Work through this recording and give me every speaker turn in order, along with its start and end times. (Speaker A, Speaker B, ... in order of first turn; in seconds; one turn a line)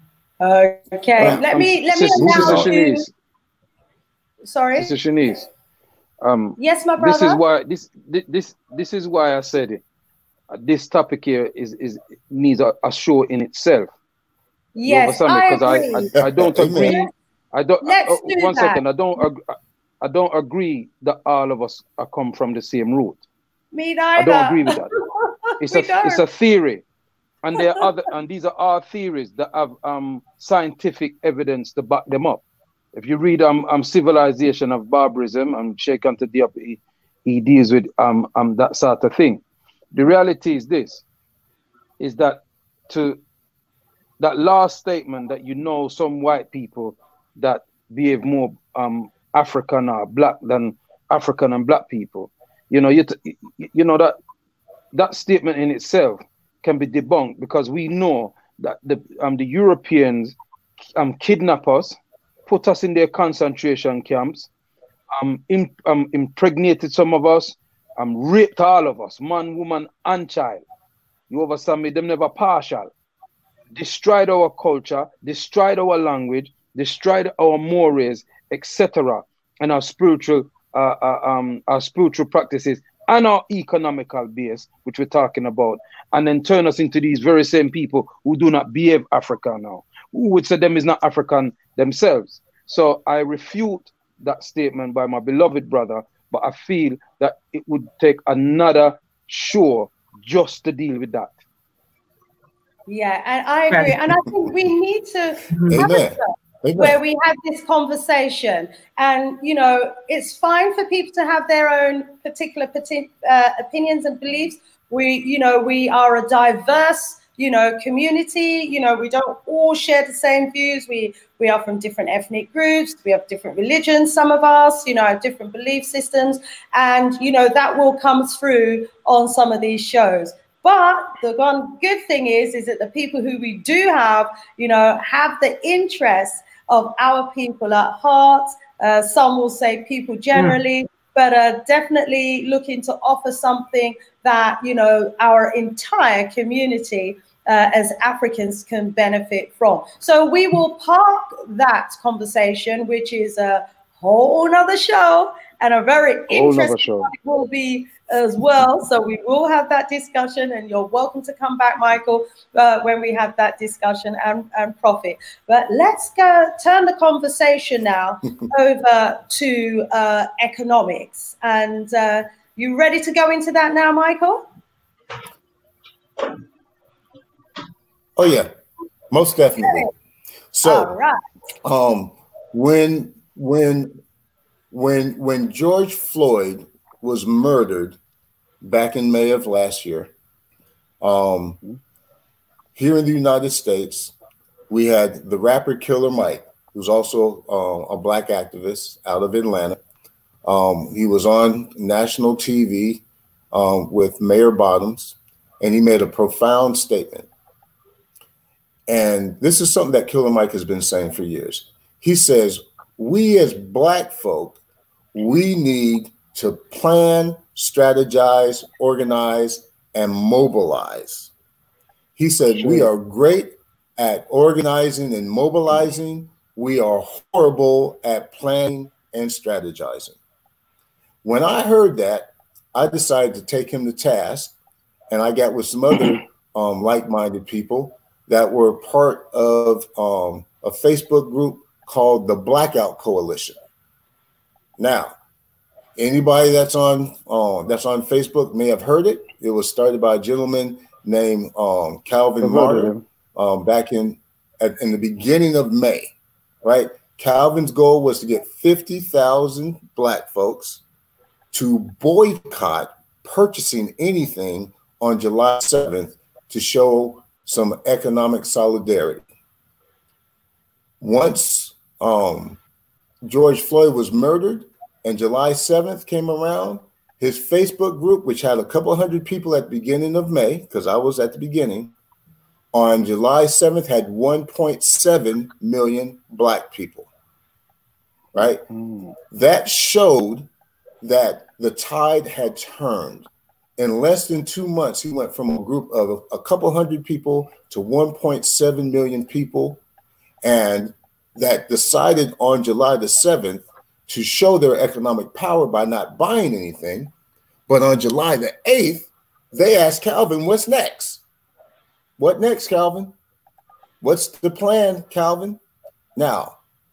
Speaker A: 0.4-3.1
Speaker B: 1.2-1.5
Speaker C: 1.2-3.1
Speaker B: 2.1-2.7
Speaker A: 4.4-4.9
Speaker C: 4.8-5.5
Speaker C: 6.2-9.8
Speaker A: 6.6-7.4
Speaker C: 10.5-13.9
Speaker A: 14.8-16.1
Speaker C: 14.9-23.2
Speaker B: 16.1-17.0
Speaker A: 16.8-17.1
Speaker A: 17.8-18.8
Speaker A: 23.7-26.2
Speaker C: 24.2-24.9
Speaker C: 25.6-26.8
Speaker C: 27.4-32.4
Speaker A: 27.6-27.9
Speaker C: 32.9-41.0
Speaker C: 42.0-43.2
Speaker C: 44.2-54.2
Speaker C: 54.9-60.4
Speaker C: 61.0-64.5
Speaker C: 65.2-70.6
Speaker C: 71.3-72.9
Speaker C: 73.7-101.4
Speaker A: 102.9-174.4
Speaker B: 105.7-107.0
Speaker C: 156.3-157.1
Speaker B: 178.2-178.5
Speaker B: 179.1-179.9
Speaker A: 179.7-179.9
Speaker B: 180.5-180.9
Speaker A: 180.6-181.2
Speaker B: 181.7-183.9
Speaker B: 184.7-188.0
Speaker B: 188.6-190.1
Speaker B: 191.0-191.6
Speaker B: 192.8-194.1
Speaker B: 194.7-199.8
Speaker B: 200.4-207.3
Speaker B: 208.9-214.6
Speaker B: 215.1-221.3
Speaker B: 222.2-230.2
Speaker C: 222.6-222.9
Speaker B: 231.2-234.6
Speaker B: 235.1-243.6
Speaker B: 244.8-245.2
Speaker B: 246.0-260.8
Speaker C: 252.4-253.0
Speaker B: 261.5-269.2
Speaker B: 271.0-272.6
Speaker B: 273.2-281.9
Speaker B: 282.7-287.1
Speaker B: 288.3-288.6
Speaker C: 288.7-289.1
Speaker B: 289.3-290.5
Speaker B: 291.0-299.8
Speaker B: 300.4-307.1
Speaker B: 307.7-311.2
Speaker B: 312.2-313.1
Speaker B: 314.0-315.6
Speaker B: 316.2-316.6